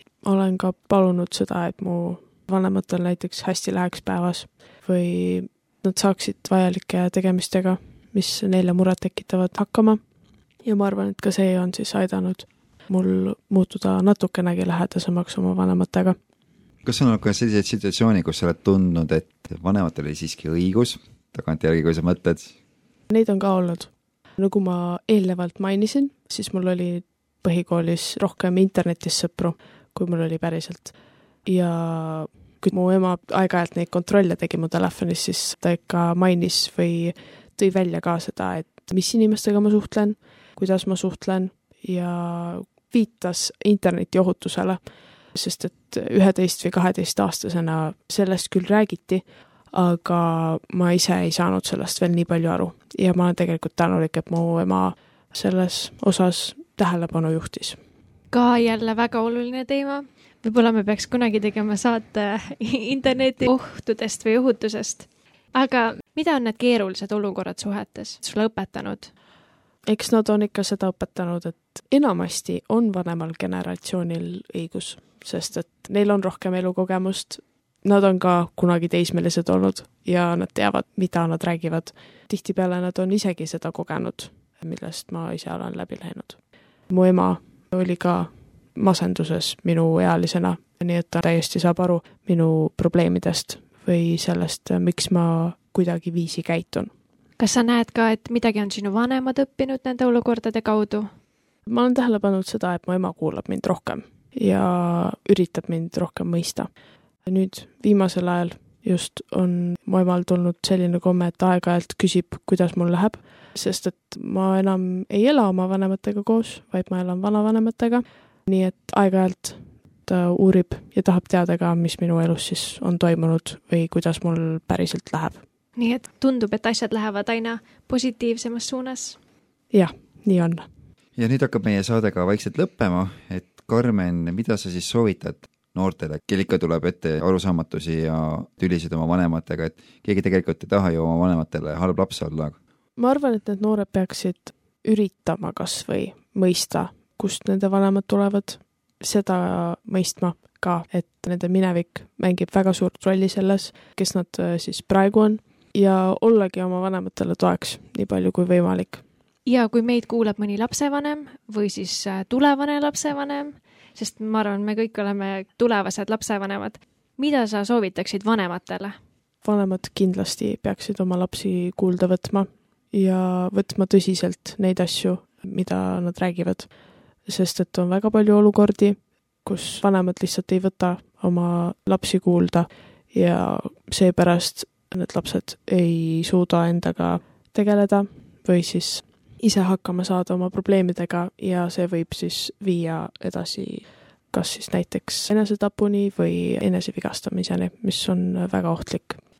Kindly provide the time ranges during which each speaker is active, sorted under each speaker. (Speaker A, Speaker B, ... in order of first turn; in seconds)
Speaker A: 0.2-10.0, 10.6-16.2, 23.1-49.2, 49.7-57.8, 69.9-96.9, 101.7-106.7, 107.2-125.4, 129.7-130.7, 143.0-159.0, 169.4-176.7, 177.2-199.2
Speaker B: 16.8-22.5, 131.2-142.6
Speaker C: 58.3-69.1, 97.4-101.1, 125.8-129.2, 159.4-169.0